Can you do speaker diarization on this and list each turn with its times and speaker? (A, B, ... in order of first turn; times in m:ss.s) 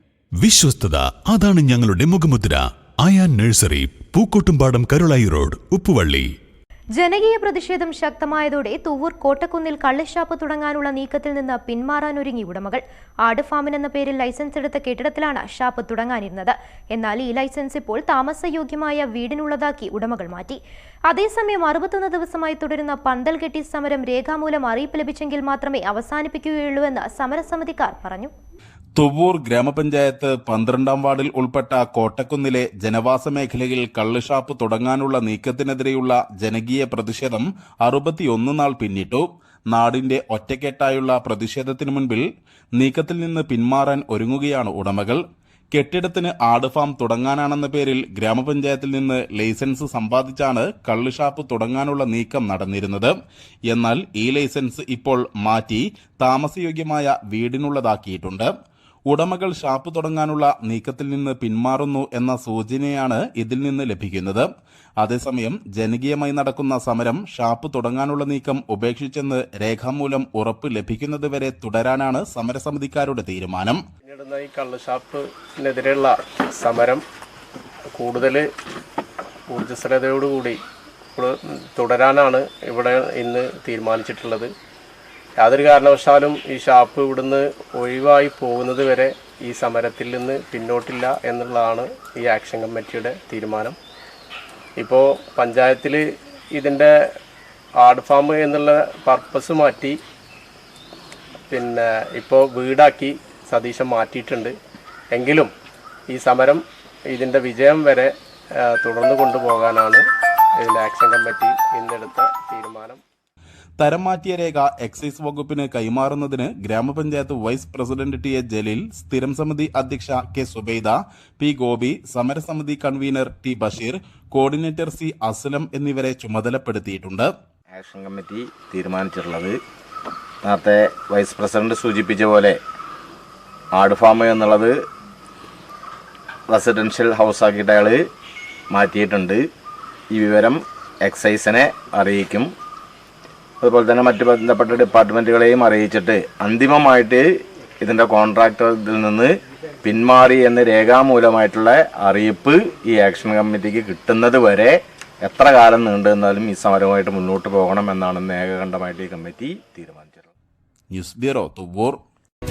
0:00.4-0:06.3 A
0:07.0-0:28.3 B
0:29.0-0:42.2 C
0:42.8-0:45.2 C
0:45.7-0:53.2 C
0:53.7-0:58.5 C
0:59.1-1:04.5 C
1:05.0-1:13.8 C
1:14.0-1:17.0 D
1:17.9-1:18.4 D
1:19.5-1:20.6 D
1:21.2-1:24.5 D
1:25.4-1:33.8 D
1:34.8-1:36.0 D
1:36.5-1:36.9 D
1:37.8-1:40.0 D
1:41.5-1:44.6 D
1:45.1-1:45.5 D
1:46.1-1:48.1 D
1:48.6-1:50.0 D
1:50.6-1:53.0 D
1:53.8-2:07.3 C
2:07.7-2:09.6 E
2:10.4-2:12.6 E
2:13.8-2:14.7 E
2:16.5-2:18.0 E
2:18.7-2:19.4 E
2:20.1-2:22.5 E
2:23.6-2:27.3 E
2:27.8-2:29.3 E
2:29.8-2:40.3 E
2:40.9-2:42.0 C